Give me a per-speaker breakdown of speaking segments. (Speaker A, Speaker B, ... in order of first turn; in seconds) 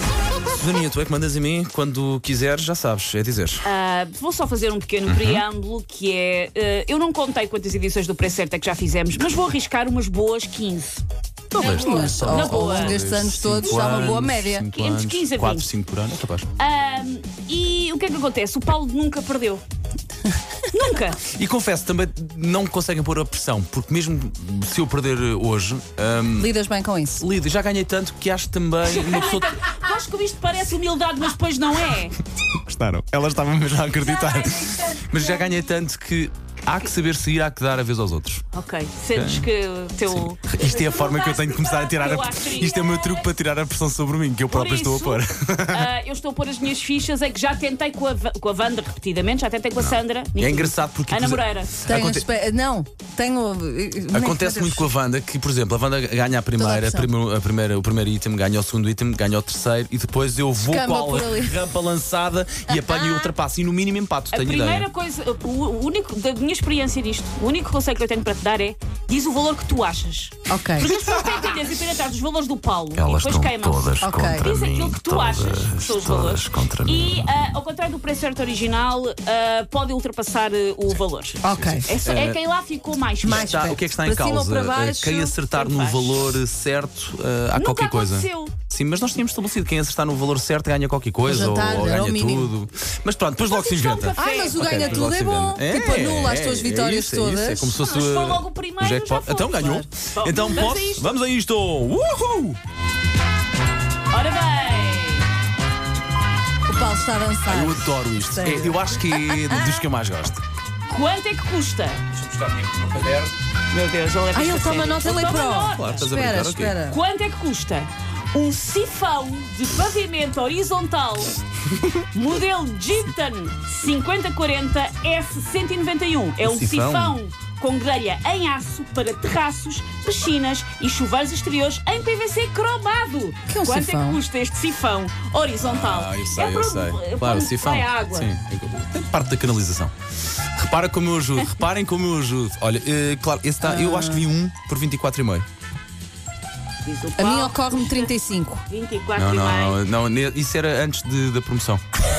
Speaker A: 0.5-3.6, 5.1-5.4, 11.5-16.5, 21.3-26.5, 27.2-29.7, 32.7-38.5, 39.1-39.5, 40.1-45.9, 49.8-52.3, 54.1-64.9, 73.0-77.3, 81.4-82.4, 83.2-102.6, 106.7-110.4, 112.1-113.3, 115.0-116.8, 126.4-127.2, 135.6-139.9, 140.6-145.5, 149.2-151.8
Speaker B: 3.6-11.0, 11.6-13.0, 13.6-15.7, 16.6-19.6, 20.7-21.2, 28.9-32.1, 34.0-35.0, 38.5-43.3, 44.5-51.8, 64.3-83.8, 85.6-86.2, 87.5-88.5, 93.5-95.1, 97.8-101.2, 104.1-105.3, 110.9-112.0, 113.7-116.1, 116.9-121.3, 122.1-138.3, 146.8-148.1, 148.7-149.8
Speaker C: 11.6-14.7, 26.4-27.2, 51.9-54.9, 56.5-57.1, 60.6-61.6, 62.7-63.3, 70.5-70.9, 74.0-74.5, 81.4-81.9, 83.2-85.5, 91.2-92.5, 94.2-97.8, 99.6-99.9, 106.7-109.7, 114.3-117.0, 133.5-134.2, 143.6-144.3, 147.2-148.6